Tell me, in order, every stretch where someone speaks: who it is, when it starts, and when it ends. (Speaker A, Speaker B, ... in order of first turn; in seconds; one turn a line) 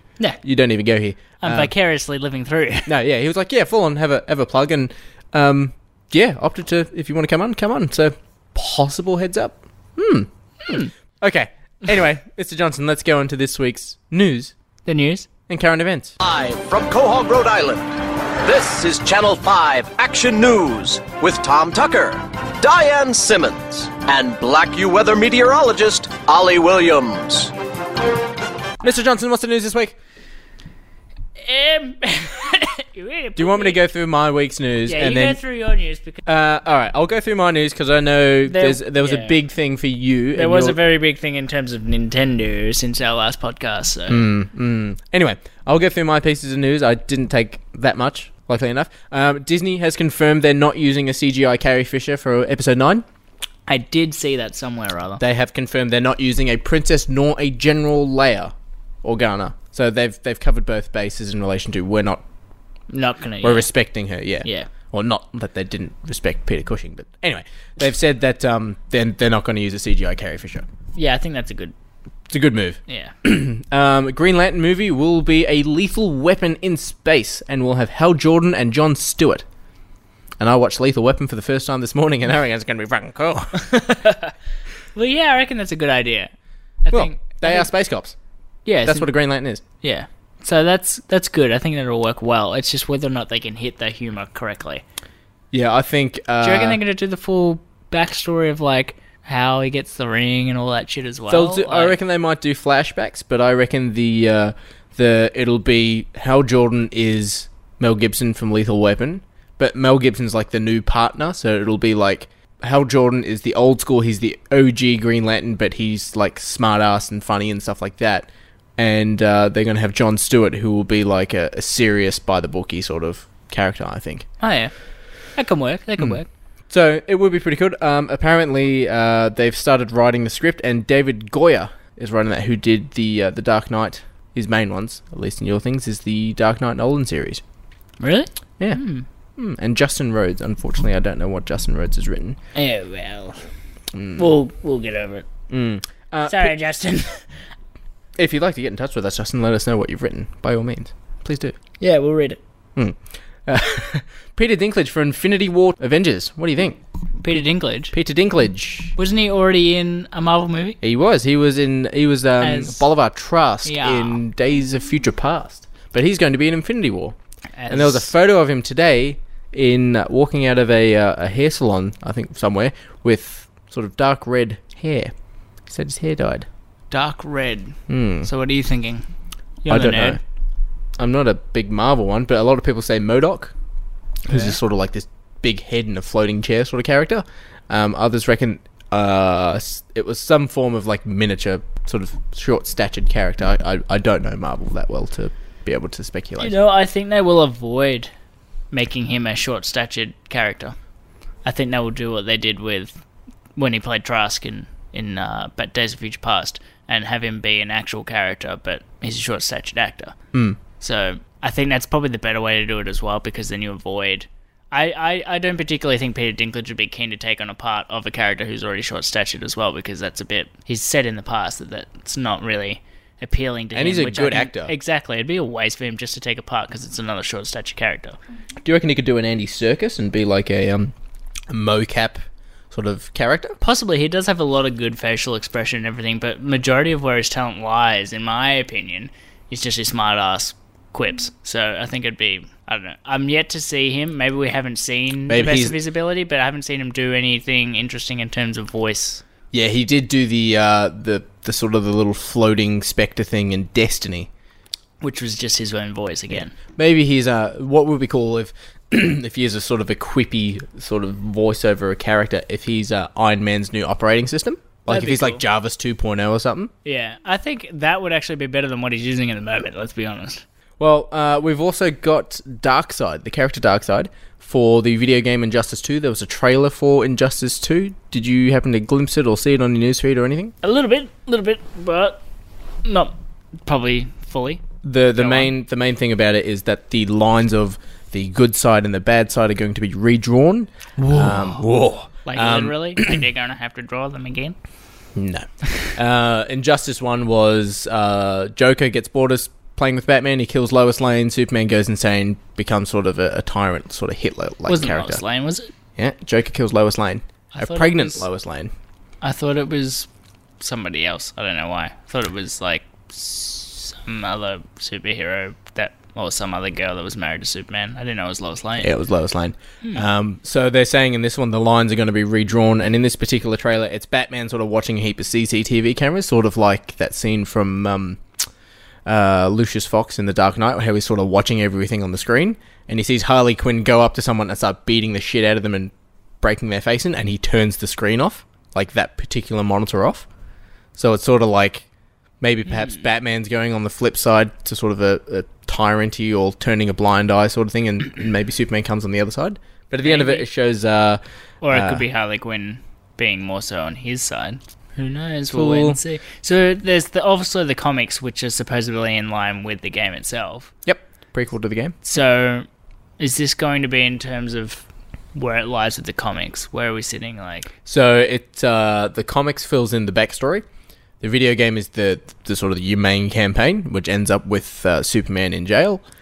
Speaker A: 0.4-1.7
Speaker B: 1.4-2.9
Speaker A: 2.9-14.5
Speaker B: 14.8-15.3
Speaker A: 15.5-16.1
Speaker C: 16.2-27.5
Speaker A: 28.8-30.0
Speaker B: 31.4-33.8
Speaker A: 33.4-35.4
Speaker B: 34.8-36.2
Speaker A: 36.2-40.8
Speaker B: 38.5-39.4
Speaker B: 40.3-44.2
Speaker A: 44.1-53.0
Speaker B: 53.7-55.2
Speaker A: 55.2-62.2
Speaker B: 62.9-63.7
Speaker A: 63.4-70.7
Speaker B: 64.4-64.7
Speaker B: 71.0-71.7
Speaker A: 72.3-79.4
Speaker B: 72.9-73.1
Speaker A: 80.4-83.8
Speaker B: 83.7-84.3
Speaker B: 84.9-86.3
Speaker B: 86.8-87.7
Speaker A: 86.9-88.2
Speaker B: 88.7-89.1
Speaker A: 88.8-89.6
Speaker B: 89.8-94.8
Speaker A: 95.5-96.8
Speaker B: 96.4-102.0
Speaker A: 101.3-124.3
Speaker B: 124.4-124.7
Speaker B: 125.3-126.3
Speaker A: 126.7-137.4
Speaker B: 138.0-139.0
Speaker A: 139.4-142.4
Speaker B: 142.5-143.4
Speaker A: 143.9-144.3
Speaker B: 144.2-145.3
Speaker A: 145.5-146.5
Speaker B: 146.2-147.3
Speaker A: 148.2-151.6
Speaker B: 151.8-152.4
Speaker A: 152.8-156.8
Speaker B: 157.2-157.9
Speaker A: 157.9-158.9
Speaker B: 159.0-160.8
Speaker A: 160.8-167.2
Speaker B: 162.4-162.9
Speaker B: 163.6-164.2
Speaker B: 167.6-168.1
Speaker A: 167.7-175.1
Speaker A: 175.7-176.5
Speaker B: 176.9-179.0
Speaker A: 177.9-178.3
Speaker B: 179.6-180.2
Speaker A: 179.7-180.2
Speaker A: 181.0-183.5
Speaker A: 184.2-196.6
Speaker B: 184.3-184.6
Speaker B: 196.4-198.1
Speaker B: 198.7-200.8
Speaker B: 201.4-203.0
Speaker B: 203.6-210.2
Speaker A: 210.3-210.6
Speaker B: 210.8-228.2
Speaker A: 223.7-224.7
Speaker A: 228.6-230.9
Speaker A: 231.5-233.6
Speaker B: 233.6-249.2
Speaker A: 245.3-245.8
Speaker A: 249.5-254.3
Speaker B: 255.0-256.5
Speaker A: 256.3-266.7
Speaker B: 264.9-265.4
Speaker B: 266.8-270.4
Speaker A: 270.8-280.5
Speaker B: 280.6-282.2
Speaker B: 282.8-283.1
Speaker B: 283.6-284.6
Speaker A: 284.8-293.2
Speaker B: 285.2-285.5
Speaker B: 291.0-291.6
Speaker B: 292.2-294.6
Speaker A: 295.1-305.2
Speaker B: 304.7-305.7
Speaker A: 306.0-308.7
Speaker B: 307.5-308.3
Speaker B: 309.2-310.1
Speaker B: 310.6-318.9
Speaker A: 318.8-328.2
Speaker A: 329.1-340.3
Speaker A: 340.9-341.9
Speaker A: 342.4-352.0
Speaker B: 350.0-350.5
Speaker B: 351.6-360.7
Speaker A: 355.5-356.0
Speaker A: 360.9-361.9
Speaker B: 362.0-362.6
Speaker B: 363.2-367.7
Speaker A: 367.9-370.6
Speaker A: 371.2-376.0